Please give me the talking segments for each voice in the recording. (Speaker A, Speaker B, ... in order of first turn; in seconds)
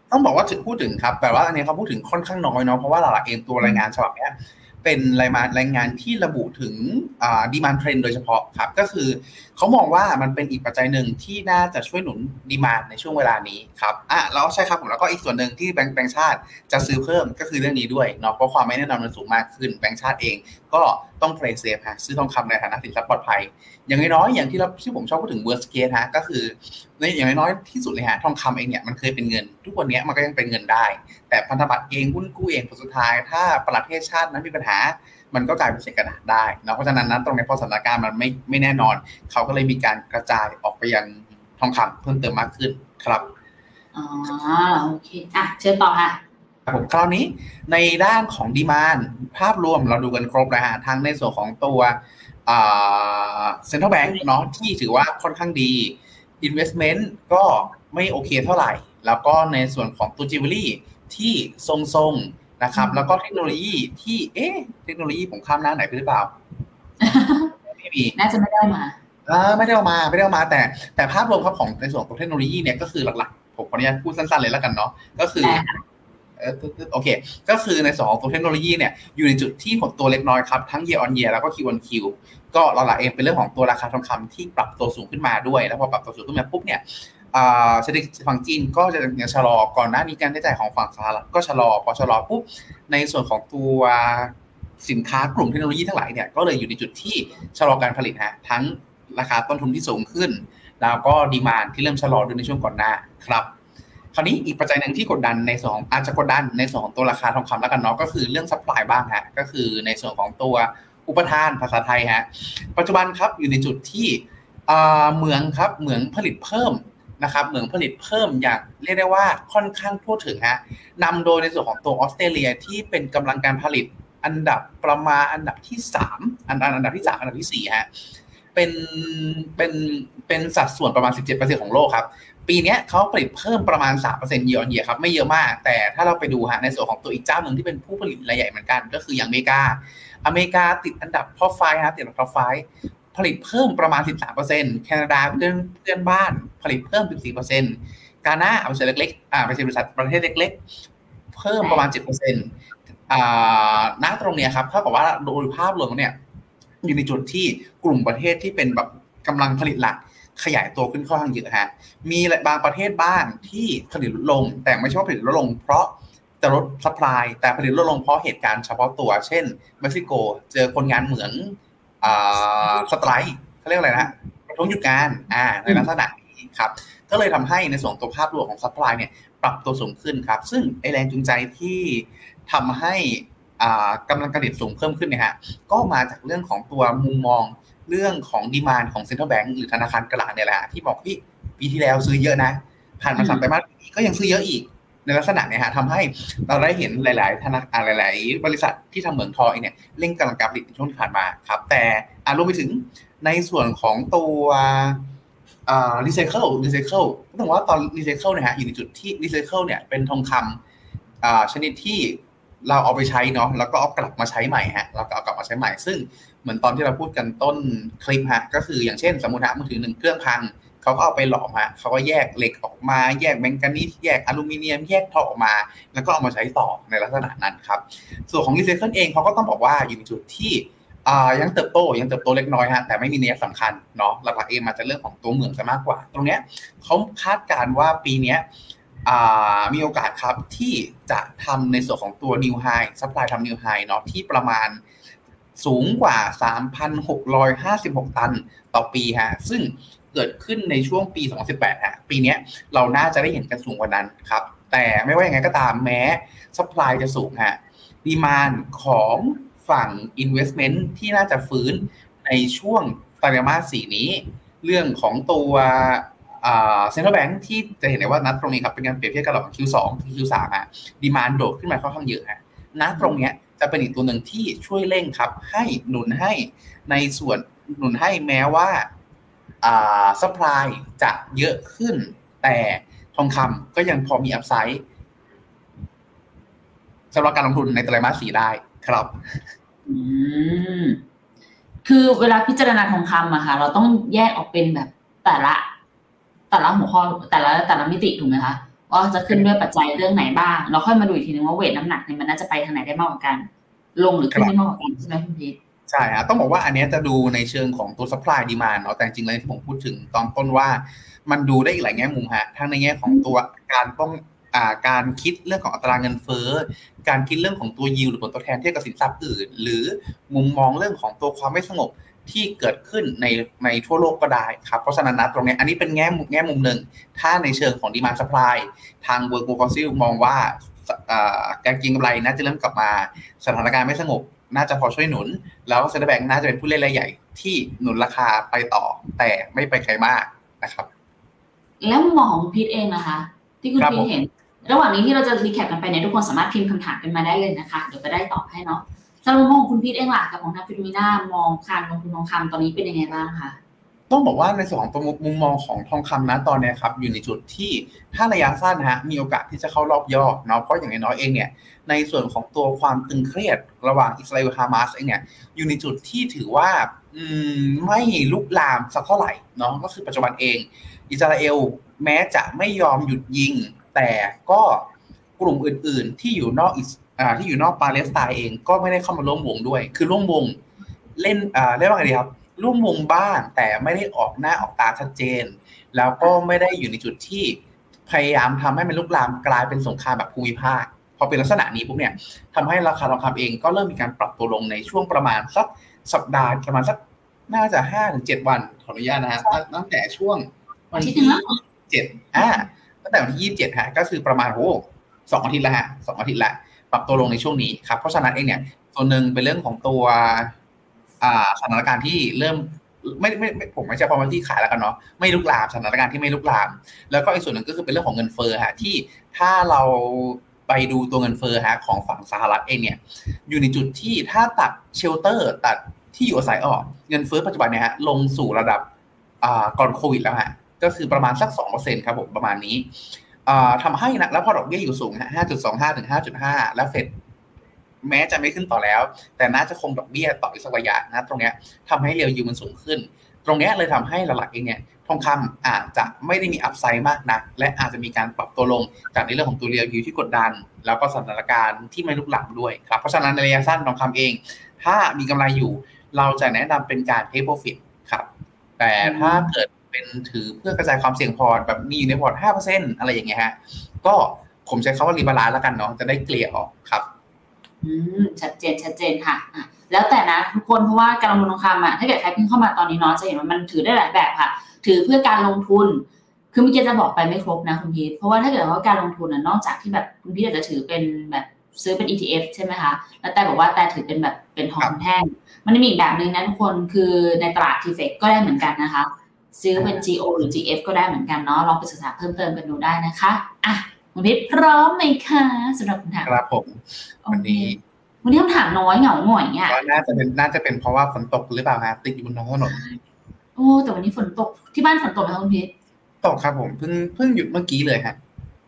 Speaker A: 0.1-43.3, 46.6-66.3, 67.7-68.2, 69.2-75.6, 76.4-103.5, 104.1-127.9, 128.5-150.6, 151.3-152.5, 153.1-156.2, 156.8-205.0, 205.7-210.6, 211.2-238.4, 239.0-244.8, 245.6-278.9, 279.6-284.8, 287.1-289.5, 305.9-340.9, 343.8-344.1, 354.1-380.6, 381.1-410.5, 411.2-428.9, 429.4-432.9, 433.4-437.1, 438.0-458.3, 458.8-467.1, 489.7-490.0, 496.2-497.8, 499.7-502.8, 506.2-508.2
Speaker B: 43.9-46.2, 62.7-63.1, 67.0-67.5, 68.2-69.0, 75.4-75.8, 151.6-151.9, 193.2-193.5, 272.9-273.2, 289.9-291.0, 291.8-295.6, 296.5-305.6, 341.8-353.6, 400.9-401.5, 459.0-459.5, 467.8-496.3, 497.2-497.7, 498.2-499.8, 502.7-503.0, 503.6-505.7